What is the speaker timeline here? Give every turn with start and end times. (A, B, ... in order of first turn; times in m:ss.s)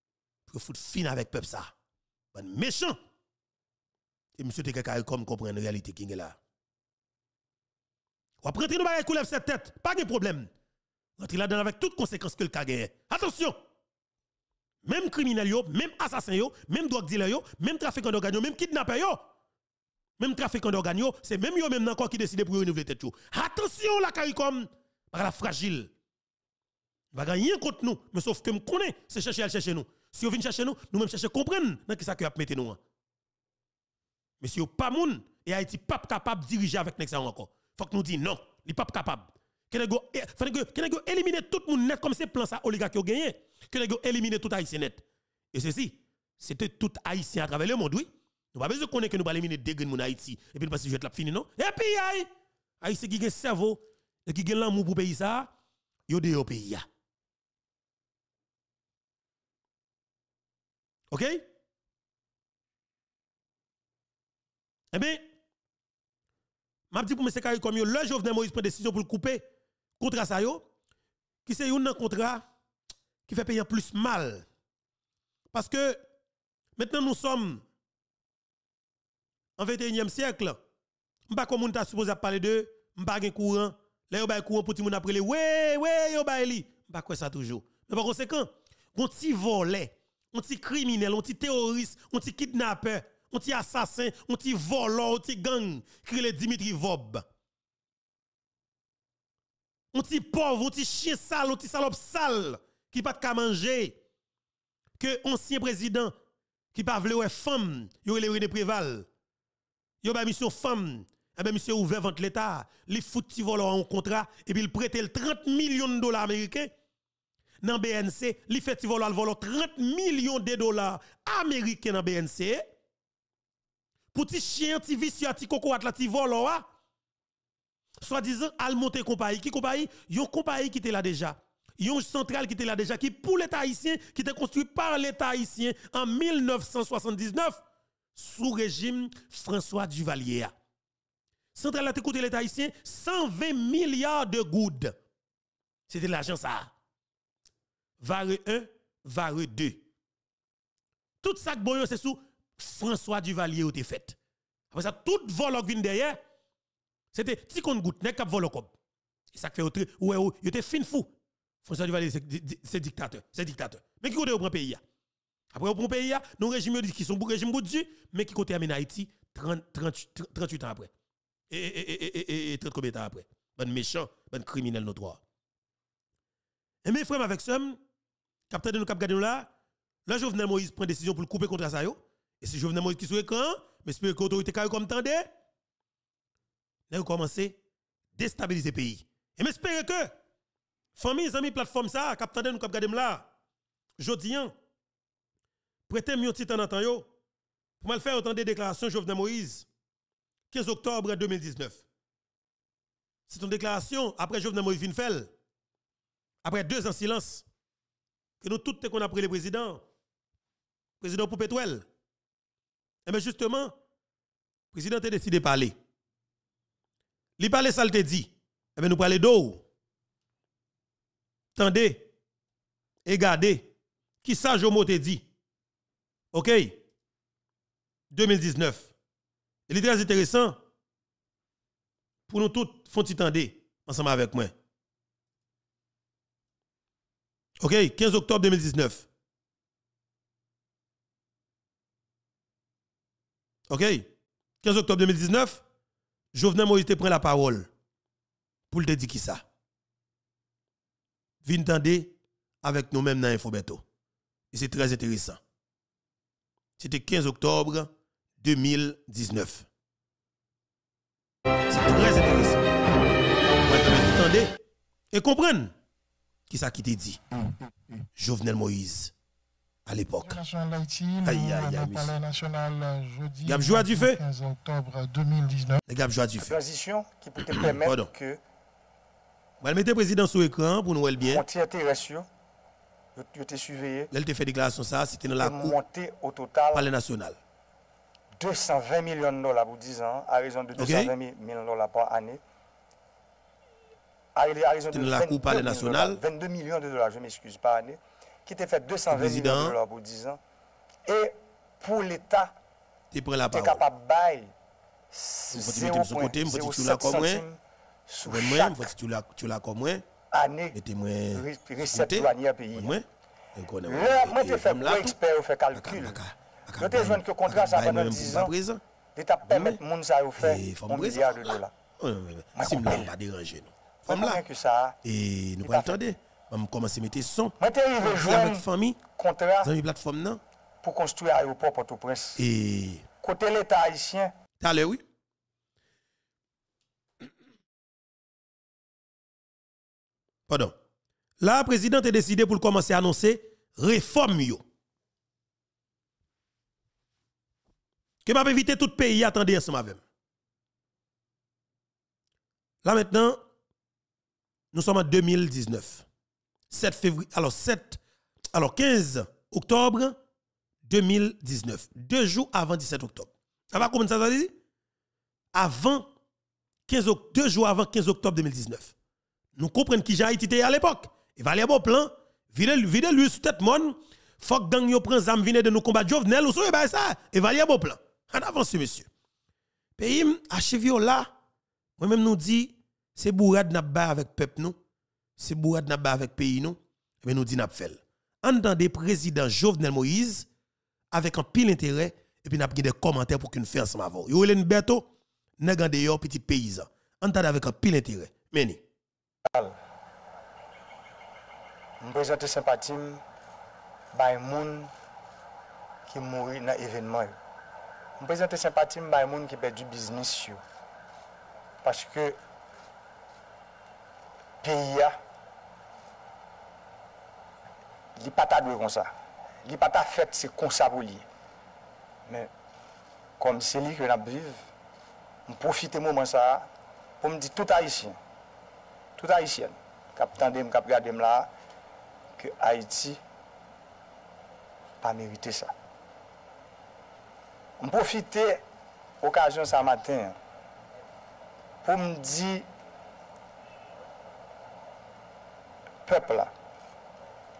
0:00.5-0:01.7 A
0:02.3-0:03.0 A
0:04.4-0:06.4 A
0:08.4-0:10.5 A
0:11.2-0:13.6 A
0:14.8-0:19.2 A
0:20.2-0:25.9 A
0:27.1-0:32.8 A
0:34.4-0:52.3 A
0:52.8-0:55.5 A
0:56.1-0:56.8 A
1:01.1-1:01.4 A
1:04.9-1:05.2 A
1:06.9-1:09.4 A
1:10.0-1:10.6 A
1:11.4-1:12.4 A
1:13.3-1:14.4 A
1:15.5-1:16.0 A
1:16.8-1:17.6 A
1:19.6-1:20.6 A
1:21.3-1:37.2 A
1:39.9-1:44.0 A
1:45.0-1:46.1 A
1:46.7-1:49.1 A
1:50.0-1:56.7 A
1:57.6-2:02.6 A
2:04.1-2:06.6 A
2:08.0-2:17.6 A
2:18.2-2:20.5 A
2:21.5-2:24.9 A
2:25.9-2:26.7 A
2:28.0-2:29.8 A
2:31.2-2:34.2 A
2:34.7-2:36.2 A
2:37.1-2:38.7 A
2:39.3-2:41.1 A
2:41.6-2:44.8 A
2:45.5-2:50.9 A
2:51.5-2:55.2 A
2:56.8-2:57.8 A
2:58.5-2:59.5 A
3:00.0-3:05.2 A
3:06.9-3:07.6 A
3:08.2-3:10.1 A
3:11.0-3:13.3 A
3:14.0-3:14.5 A
3:15.9-3:17.1 A
3:17.8-3:19.7 A
3:20.5-3:21.8 A
3:23.3-3:25.3 A
3:26.4-3:27.4 A
3:28.4-3:29.8 A
3:31.0-3:31.8 A
3:33.0-3:33.7 A
3:34.7-3:35.7 A
3:37.4-3:39.6 A
3:41.6-3:42.0 A
3:43.0-3:43.7 A
3:44.2-3:45.2 A
3:46.3-3:46.8 A
3:48.1-3:48.9 A
3:49.7-3:50.6 A
3:52.3-3:54.5 A
3:57.6-3:59.0 A
4:03.7-4:04.1 A
4:04.6-4:05.6 A
4:06.3-4:07.7 A
4:08.7-4:09.4 A
4:11.4-4:12.1 A
4:12.6-4:13.8 A
4:14.5-4:15.4 A
4:16.8-4:17.9 A
4:18.4-4:19.6 A
4:21.7-4:22.6 A
4:23.7-4:24.6 A
4:25.1-4:25.7 A
4:26.5-4:27.2 A
4:28.2-4:29.1 A
4:29.8-4:30.4 A
4:30.2-4:35.8 B
4:31.2-4:32.1 A
4:33.4-4:34.2 A
4:35.9-4:36.5 A
4:36.4-4:38.4 C
4:37.5-4:38.1 A
4:39.6-4:41.4 A
4:41.2-4:42.3 C
4:43.2-4:44.1 C
4:44.1-4:45.7 A
4:45.4-4:46.9 C
4:46.7-4:47.4 A
4:48.4-4:52.4 C
4:50.8-4:51.1 A
4:54.3-5:00.4 C
4:54.9-4:56.2 A
4:59.1-4:59.7 A
5:01.0-5:02.5 C
5:03.1-5:03.8 A
5:03.5-5:04.5 C
5:05.1-5:08.9 C
5:05.5-5:07.4 A
5:08.2-5:10.0 A
5:10.3-5:10.8 C
5:10.7-5:13.0 A
5:11.3-5:13.0 C
5:13.6-5:15.1 A
5:13.8-5:16.2 C
5:15.7-5:18.8 A
5:16.8-5:18.5 C
5:19.2-5:21.7 C
5:19.5-5:19.8 A
5:20.4-5:24.4 A
5:22.6-5:23.1 C
5:24.1-5:25.0 C
5:25.0-5:29.0 A
5:25.6-5:26.0 C
5:27.6-5:29.7 C
5:29.6-5:30.4 A
5:30.8-5:32.4 C
5:32.4-5:33.0 A
5:33.2-5:34.3 C
5:34.6-5:35.0 A
5:40.5-5:40.7 A
5:41.4-5:44.6 A
5:48.2-5:50.0 A
5:52.8-5:53.4 A
5:54.7-5:56.0 A
5:56.7-5:58.0 A
5:58.5-6:00.1 A
6:00.9-6:04.5 A
6:05.5-6:06.0 A
6:06.9-6:08.9 A
6:09.6-6:19.1 A
6:20.0-6:21.3 A
6:22.0-6:24.8 A
6:25.4-6:30.5 A
6:31.1-6:35.1 A
6:35.6-6:38.8 A
6:39.5-6:39.8 C
6:42.0-6:43.2 C
6:44.1-6:44.9 C
6:46.1-6:47.4 C
6:48.2-6:50.6 C
6:51.8-6:52.4 C
6:54.6-6:55.1 C
6:58.2-6:59.1 C
6:59.6-7:01.3 C
7:03.4-7:04.6 C
7:05.5-7:06.7 C
7:07.2-7:08.2 C
7:09.2-7:11.5 C
7:12.4-7:13.2 C
7:15.0-7:15.7 C
7:17.8-7:18.6 C
7:19.2-7:20.4 C
7:21.8-7:22.7 C
7:26.0-7:26.5 C